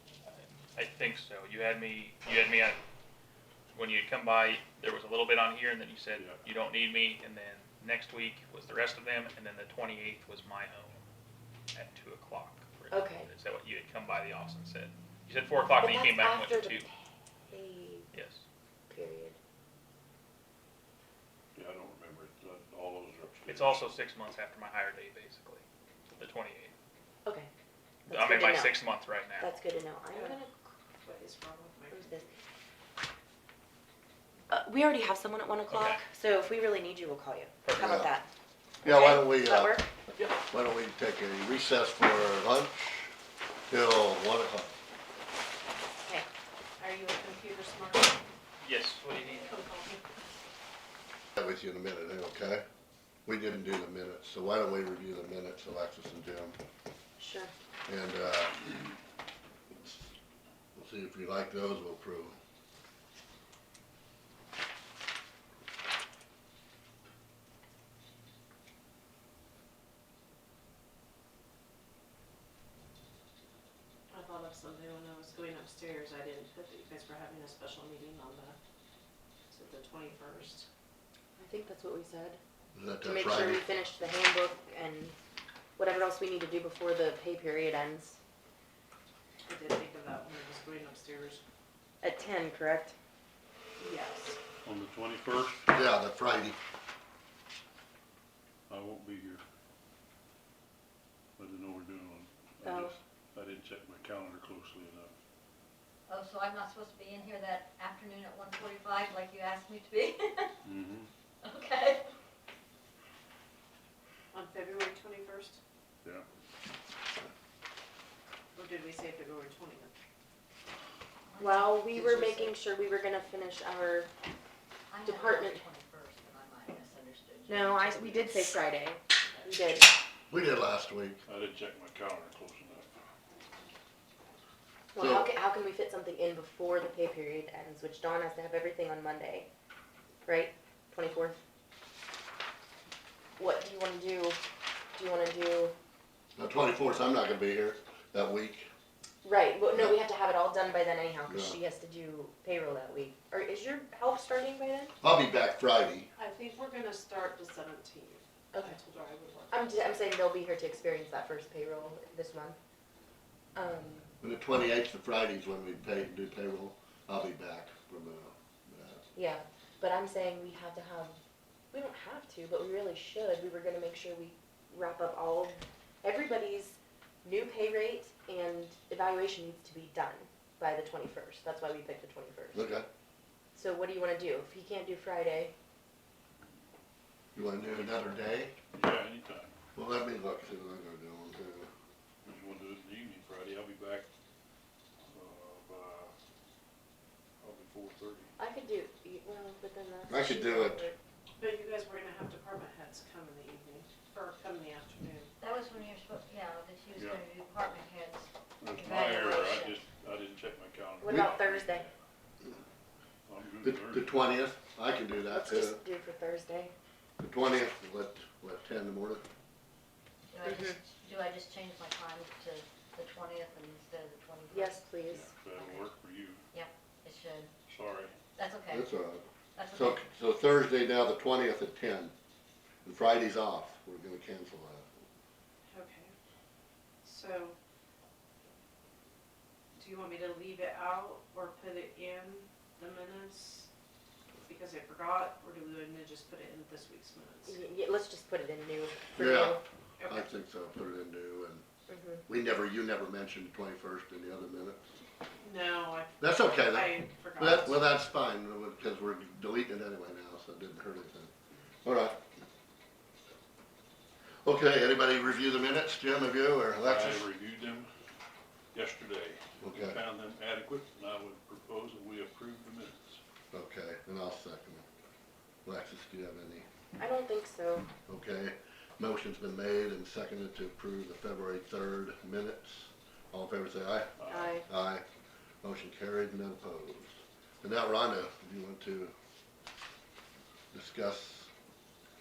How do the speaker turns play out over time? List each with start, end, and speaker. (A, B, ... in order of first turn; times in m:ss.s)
0:00.3-0:02.8 A
0:03.7-0:11.0 A
0:06.2-0:06.4 B
0:11.7-0:16.9 A
0:12.9-0:13.3 C
0:15.8-0:18.1 C
0:18.1-0:18.4 A
0:18.9-0:19.4 C
0:21.5-0:23.8 B
0:23.5-0:25.6 A
0:26.2-0:26.7 A
0:28.1-0:28.8 C
0:28.1-0:29.5 A
0:29.4-0:30.7 C
0:30.1-0:30.4 D
0:31.0-0:32.3 D
0:31.9-0:32.3 C
0:34.5-0:38.3 C
0:35.7-0:36.0 A
0:37.6-0:38.0 A
0:37.8-0:38.1 E
0:38.8-0:39.8 E
0:38.8-0:39.9 C
0:40.4-0:43.1 E
0:43.7-0:44.7 E
0:46.8-0:48.2 D
0:48.6-0:49.4 A
0:49.3-0:50.1 D
0:51.4-0:52.6 E
0:53.3-0:56.6 E
0:57.2-0:57.5 C
0:57.9-0:58.9 E
0:59.8-1:00.1 E
1:00.8-1:02.4 E
1:14.1-1:18.6 D
1:19.5-1:20.7 D
1:21.4-1:22.4 C
1:22.7-1:23.6 E
1:23.0-1:25.2 C
1:25.8-1:28.2 C
1:29.5-1:31.4 D
1:32.0-1:33.0 C
1:33.8-1:34.4 D
1:34.6-1:35.6 B
1:35.7-1:36.6 E
1:38.7-1:39.4 B
1:41.4-1:45.1 B
1:42.6-1:43.0 C
1:46.1-1:50.6 F
1:50.6-1:51.1 B
1:51.4-1:52.1 F
1:54.3-1:55.6 D
1:58.5-1:59.9 D
2:01.3-2:02.6 F
2:01.4-2:04.1 C
2:04.9-2:08.5 F
2:05.0-2:05.6 C
2:07.5-2:09.9 C
2:10.3-2:11.2 E
2:11.3-2:12.9 B
2:15.0-2:19.5 C
2:15.0-2:15.3 E
2:20.2-2:21.4 C
2:23.4-2:24.4 C
2:25.0-2:25.7 C
2:26.4-2:28.7 E
2:29.2-2:34.9 C
2:29.7-2:30.0 E
2:31.3-2:31.6 E
2:35.0-2:36.1 E
2:36.2-2:39.7 D
2:39.5-2:42.6 C
2:43.6-2:44.1 C
2:44.2-2:49.0 E
2:49.2-2:51.2 C
2:51.7-3:02.6 C
3:02.5-3:02.9 E
3:03.6-3:05.5 C
3:07.4-3:08.5 E
3:07.6-3:08.2 B
3:08.7-3:09.5 B
3:09.8-3:11.7 E
3:12.2-3:14.1 B
3:15.1-3:16.1 B
3:17.4-3:18.3 B
3:18.4-3:21.0 C
3:20.1-3:20.9 E
3:21.4-3:25.3 D
3:25.4-3:29.8 F
3:27.0-3:27.2 B
3:28.6-3:32.0 B
3:31.0-3:31.9 C
3:31.1-3:31.4 E
3:33.3-3:34.1 B
3:33.6-3:35.8 E
3:35.3-3:36.7 C
3:37.2-3:39.2 E
3:40.3-3:44.9 F
3:40.4-3:40.8 C
3:44.5-3:45.2 C
3:45.1-3:46.4 B
3:45.4-3:45.8 F
3:46.5-3:47.5 F
3:47.7-3:48.2 B
3:48.4-3:48.9 F
3:48.7-3:52.1 E
3:49.6-3:50.0 F
3:52.8-3:54.9 E
3:55.7-3:56.1 D
3:57.0-3:57.6 D
3:59.8-4:03.7 D
4:04.5-4:07.6 D
4:07.5-4:09.6 C
4:09.2-4:11.6 E
4:10.0-4:10.3 D
4:11.9-4:12.2 C
4:12.3-4:14.8 E
4:15.4-4:17.8 D
4:16.2-4:21.3 E
4:21.8-4:22.2 E
4:24.4-4:27.2 E
4:26.8-4:27.9 B
4:28.7-4:33.2 B
4:29.6-4:30.0 E
4:33.5-4:34.8 E
4:35.6-4:36.7 E
4:37.0-4:37.9 C
4:38.1-4:45.0 E
4:44.2-4:44.6 B
4:44.3-4:44.7 C
4:45.6-4:49.1 E
4:50.7-4:51.5 E